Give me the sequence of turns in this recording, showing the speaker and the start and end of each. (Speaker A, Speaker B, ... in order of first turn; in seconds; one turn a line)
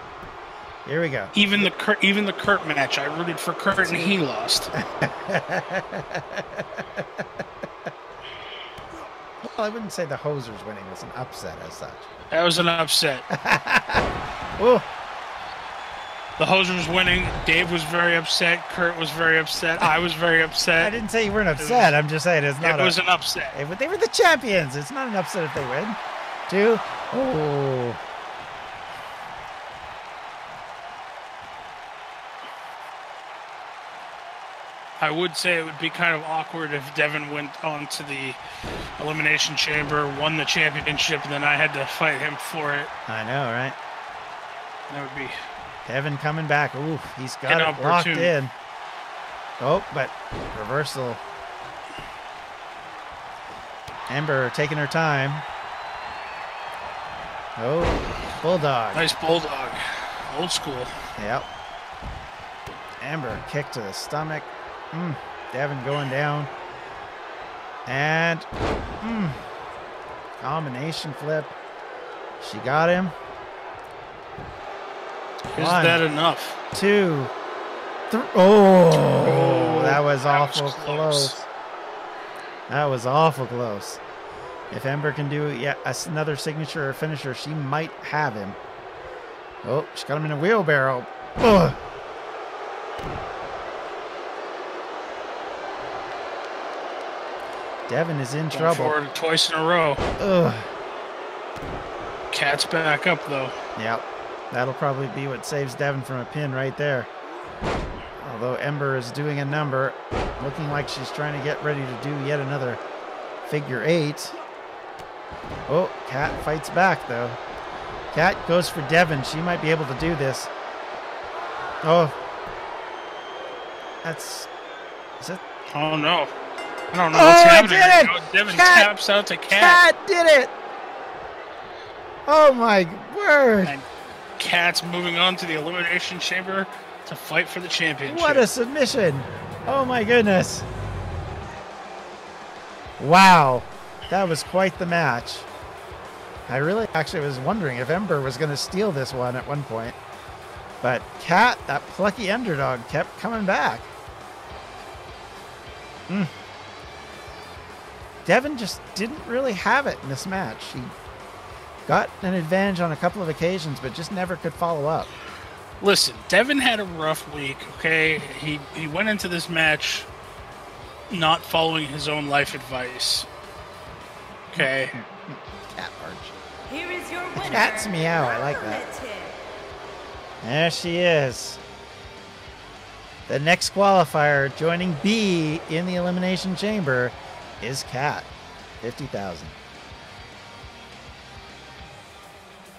Speaker A: 0.8-1.7
Speaker B: 1.3-4.7
Speaker A: 3.8-4.2
Speaker A: 4.7-7.4
Speaker A: 9.4-12.1
Speaker B: 12.3-13.3
Speaker A: 13.3-14.9
Speaker B: 16.4-21.0
Speaker A: 20.8-23.0
Speaker B: 21.6-21.9
Speaker B: 22.6-23.6
Speaker A: 23.5-28.0
Speaker B: 35.0-38.4
Speaker B: 39.0-42.9
Speaker A: 43.1-43.8
Speaker B: 44.9-45.4
Speaker A: 45.9-48.5
Speaker B: 47.5-48.3
Speaker A: 49.6-51.2
Speaker A: 54.1-55.5
Speaker A: 57.6-59.0
Speaker B: 58.9-60.9
Speaker A: 61.2-61.5
Speaker A: 63.0-66.5
Speaker A: 67.8-68.5
Speaker A: 69.0-69.4
Speaker A: 70.4-71.5
Speaker A: 72.4-73.2
Speaker B: 75.5-76.6
Speaker A: 75.5-76.0
Speaker A: 76.7-77.3
Speaker A: 78.1-81.3
Speaker B: 79.1-81.4
Speaker A: 82.7-84.0
Speaker A: 84.7-88.6
Speaker A: 89.6-91.8
Speaker A: 97.9-99.0
Speaker B: 98.5-100.0
Speaker A: 100.2-100.7
Speaker B: 102.3-103.5
Speaker A: 103.8-107.1
Speaker A: 108.2-112.8
Speaker A: 113.5-114.4
Speaker A: 115.7-117.4
Speaker A: 118.1-120.5
Speaker A: 121.8-122.2
Speaker A: 124.0-124.5
Speaker B: 125.7-126.3
Speaker B: 126.9-129.8
Speaker A: 127.1-128.9
Speaker A: 129.5-130.5
Speaker A: 132.3-133.8
Speaker B: 134.4-138.4
Speaker A: 138.1-140.7
Speaker A: 143.0-145.5
Speaker A: 146.5-150.0
Speaker A: 150.8-153.9
Speaker A: 158.2-160.9
Speaker A: 161.8-165.1
Speaker B: 165.8-170.1
Speaker B: 171.1-173.3
Speaker B: 174.5-174.9
Speaker A: 174.5-176.3
Speaker C: 176.7-179.4
Speaker A: 177.3-178.8
Speaker A: 180.4-181.6
Speaker A: 183.3-188.3
Speaker A: 188.8-189.5